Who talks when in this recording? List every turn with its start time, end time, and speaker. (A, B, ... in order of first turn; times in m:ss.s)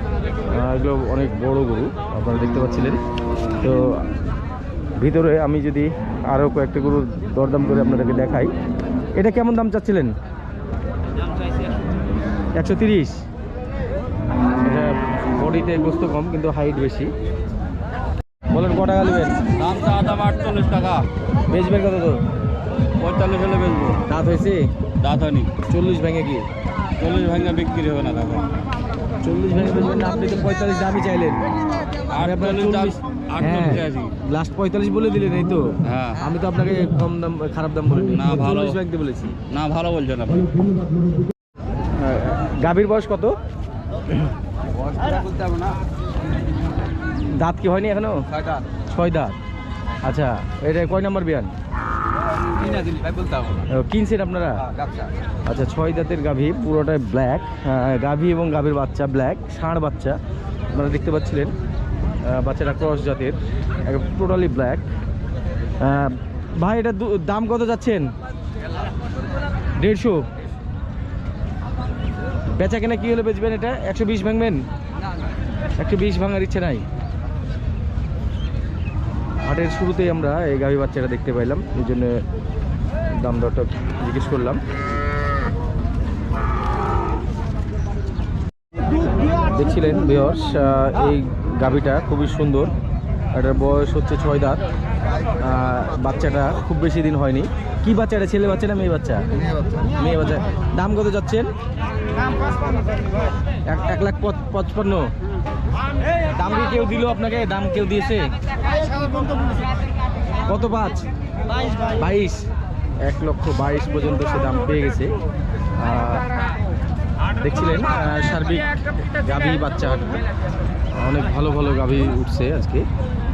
0:00.5-0:03.0 A
0:03.6-0:04.0 A
0:05.0-0:08.5 A
0:09.2-0:10.2 A
0:12.6-0:13.2 A
0:14.6-0:17.1 A
0:18.5-0:19.4 A
0:19.6-0:21.1 B
0:21.5-0:22.2 A
0:23.0-0:24.0 B
0:24.1-0:24.7 A
0:25.0-0:25.5 B
0:25.7-0:26.4 A
0:27.0-0:28.5 B
0:29.2-0:31.4 A
0:32.1-0:34.1 B
0:32.2-0:39.4 A
0:35.8-0:36.2 B
0:38.1-0:38.8 B
0:39.5-0:40.6 B
0:42.0-0:43.4 A
0:45.0-0:45.8 B
0:47.4-0:48.2 A
0:48.4-0:48.6 B
0:48.9-0:49.4 A
0:50.0-0:51.5 A
0:52.6-0:53.6 B
0:53.7-0:54.6 A
0:54.7-0:55.1 B
0:55.5-1:00.2 A
1:00.7-1:01.5 A
1:02.2-1:04.8 A
1:05.8-1:08.1 A
1:09.8-1:10.2 A
1:12.6-1:14.6 A
1:15.8-1:16.8 A
1:19.4-1:22.2 A
1:23.1-1:24.6 A
1:29.4-1:32.7 A
1:33.3-1:34.6 A
1:35.3-1:39.3 A
1:39.9-1:41.5 A
1:43.7-1:45.1 A
1:46.3-1:48.3 A
1:50.5-1:51.0 A
1:51.8-1:52.4 A
1:53.0-1:55.1 A
1:55.8-1:56.3 A
1:57.3-2:00.2 A
2:00.9-2:02.9 A